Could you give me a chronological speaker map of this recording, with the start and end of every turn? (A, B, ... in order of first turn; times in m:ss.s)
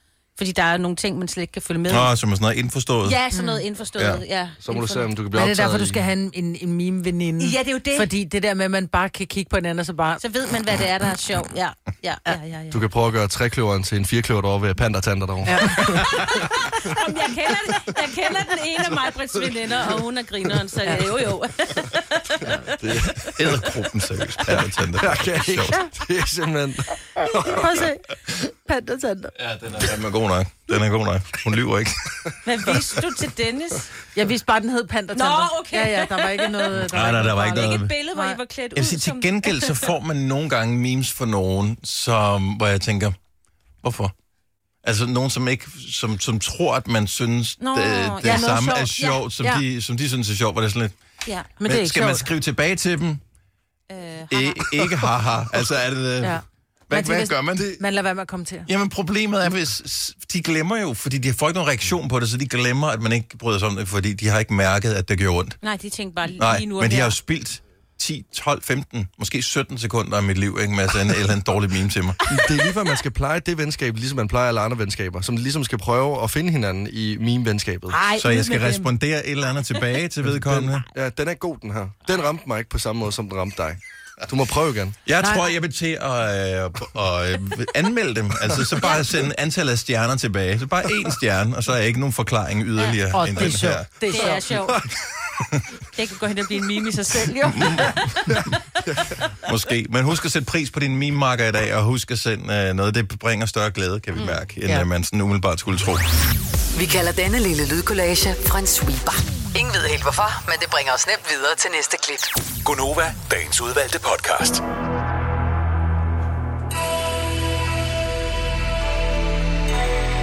0:00.4-0:02.1 A
0:01.9-0:03.2 B
0:03.0-0:05.1 A
0:03.3-0:03.6 C
0:04.0-0:04.2 B
0:04.6-0:06.0 D
0:05.3-0:10.2 C
0:07.4-0:08.1 A
0:10.2-0:12.8 A
0:12.7-0:16.4 D
0:15.4-0:16.0 C
0:15.9-0:23.2 A
0:22.4-0:23.3 D
0:23.3-0:25.8 B
0:24.5-0:27.7 D
0:27.4-0:29.3 C
0:29.4-0:32.3 B
0:32.4-0:33.9 A
0:34.1-0:38.4 C
0:35.2-0:39.9 A
0:36.7-0:38.0 B
0:38.8-0:43.2 B
0:43.8-0:44.1 B
0:44.8-0:51.0 B
0:47.6-0:49.2 A
0:48.2-0:49.6 C
0:51.3-0:51.5 A
0:51.6-0:52.3 C
0:51.6-0:53.2 B
0:53.9-0:54.7 A
0:54.3-0:57.8 B
0:56.2-0:58.7 C
0:58.7-1:05.6 B
1:05.6-1:07.2 A
1:06.4-1:12.2 B
1:12.3-1:18.0 D
1:17.9-1:18.8 C
1:18.2-1:20.8 B
1:18.3-1:18.7 A
1:20.5-1:25.0 D
1:25.0-1:33.9 B
1:25.2-1:25.5 C
1:28.8-1:29.1 A
1:33.1-1:34.4 C
1:34.1-1:34.8 A
1:35.9-1:38.1 A
1:37.5-1:38.5 B
1:38.4-1:39.2 D
1:39.4-1:46.1 B
1:46.8-1:52.4 E
1:52.6-1:54.6 F